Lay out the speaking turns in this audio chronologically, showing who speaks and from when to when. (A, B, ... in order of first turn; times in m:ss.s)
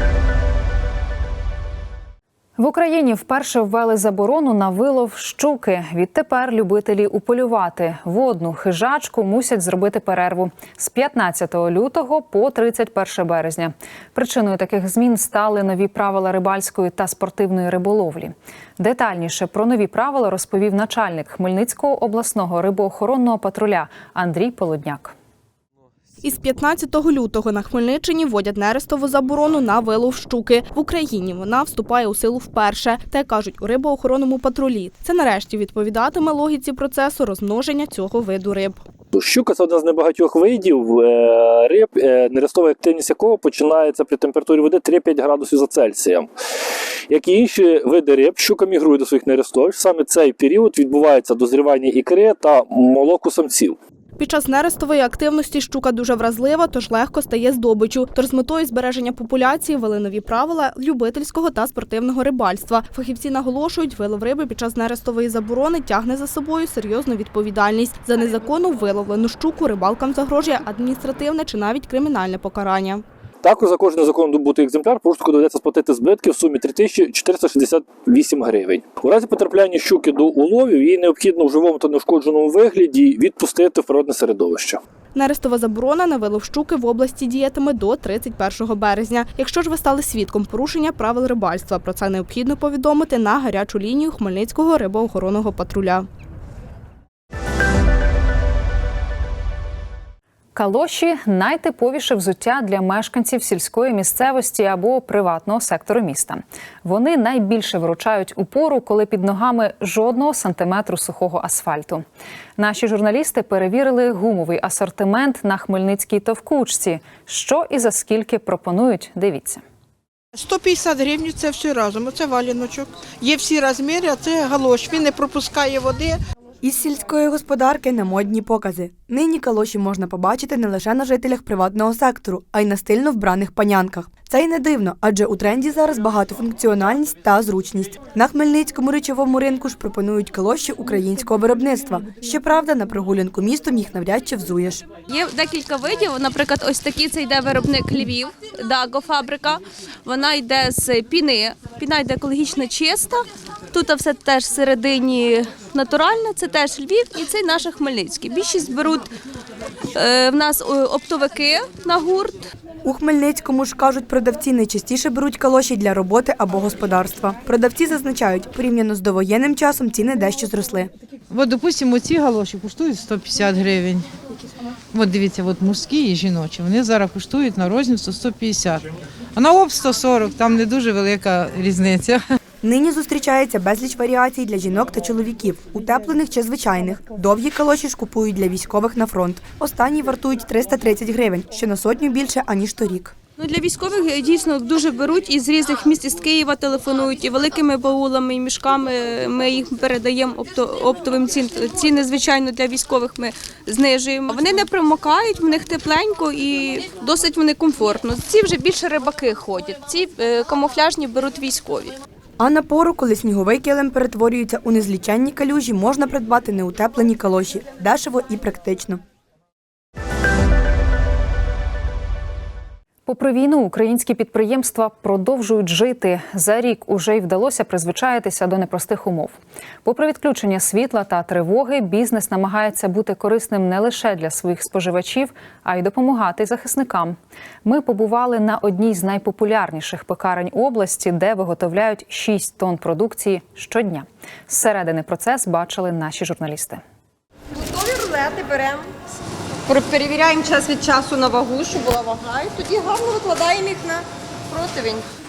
0:02.6-0:25.1 A
0:26.2-0:38.8 B
0:39.1-0:46.3 C
0:47.1-0:53.8 C
0:54.2-1:13.0 B
1:13.4-1:24.8 C
1:25.1-1:36.0 B
1:40.5-1:52.0 A
1:52.6-1:59.6 A
2:00.4-2:06.2 D
2:06.6-2:24.8 E
2:25.1-2:33.2 F
2:33.7-2:39.1 F
2:39.9-2:42.5 F
2:42.8-2:50.9 E
2:51.3-2:54.0 G
2:54.9-2:58.8 G
2:59.4-3:02.2 G
3:02.6-3:13.1 E
3:13.4-3:31.9 F
3:32.4-3:39.0 E
3:43.0-4:06.8 A
4:07.6-4:08.8 H
4:09.7-4:15.0 H